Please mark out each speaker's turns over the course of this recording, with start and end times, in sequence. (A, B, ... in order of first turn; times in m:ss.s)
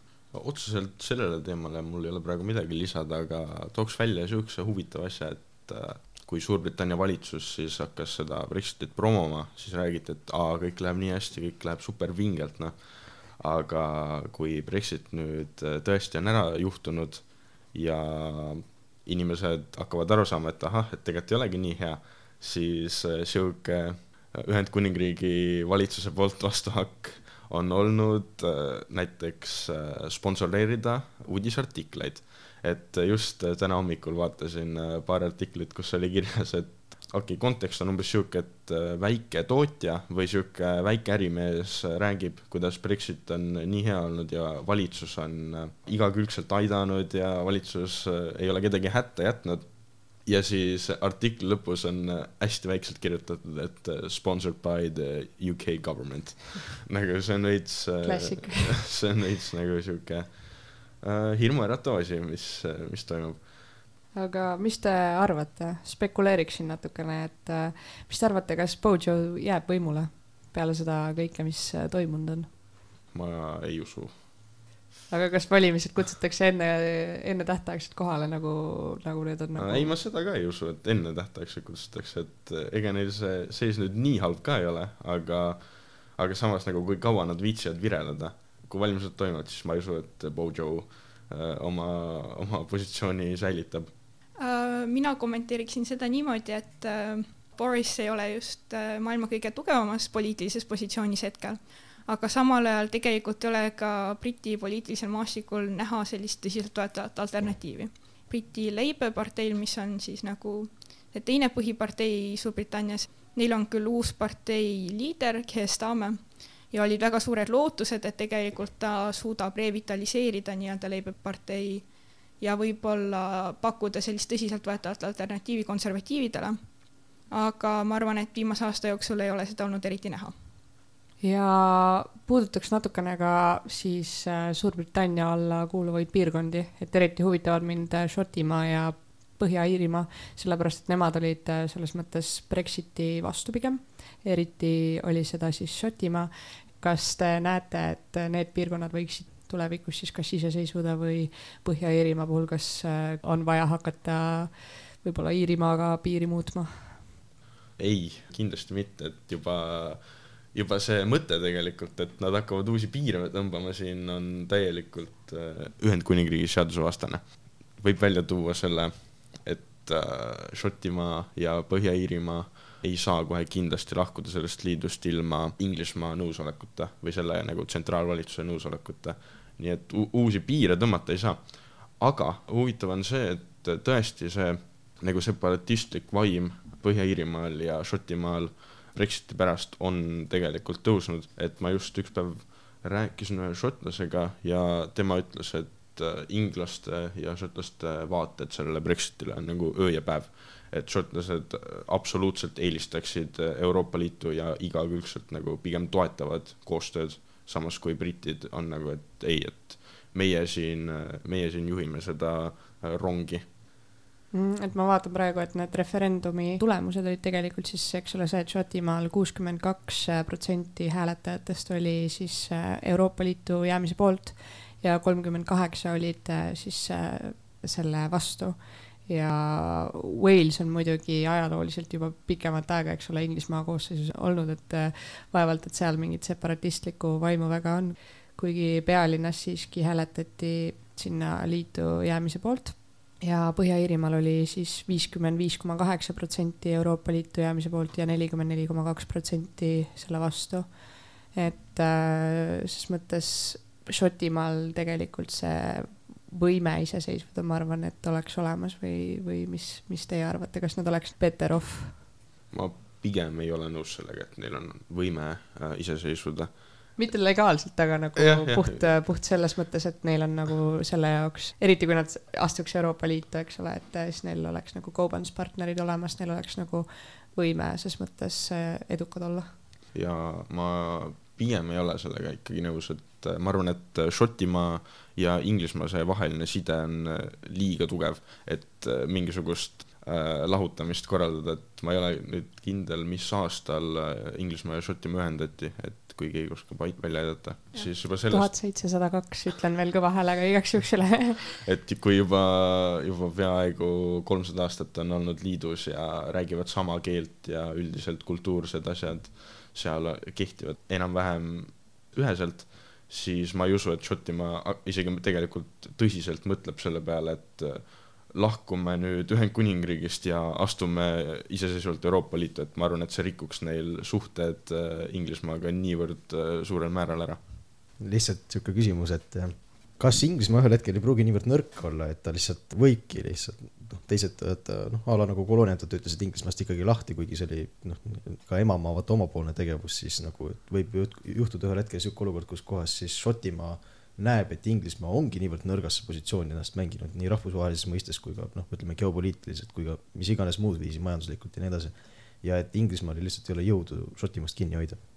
0:00.3-1:03.7 A
0:58.0-0:58.8 B
1:04.1-1:12.5 B
1:13.1-1:14.2 A
1:15.1-1:19.9 B
1:19.6-1:33.9 A
1:34.4-2:06.6 C
2:07.2-2:10.3 C
2:11.2-2:37.1 B
2:37.8-3:33.5 A
3:34.3-4:22.0 B
4:22.5-4:26.8 A
4:27.0-4:39.6 B
4:28.2-4:28.8 A
4:39.9-4:58.6 A
4:58.3-5:01.4 B
5:01.6-5:27.4 A
5:28.0-5:55.0 D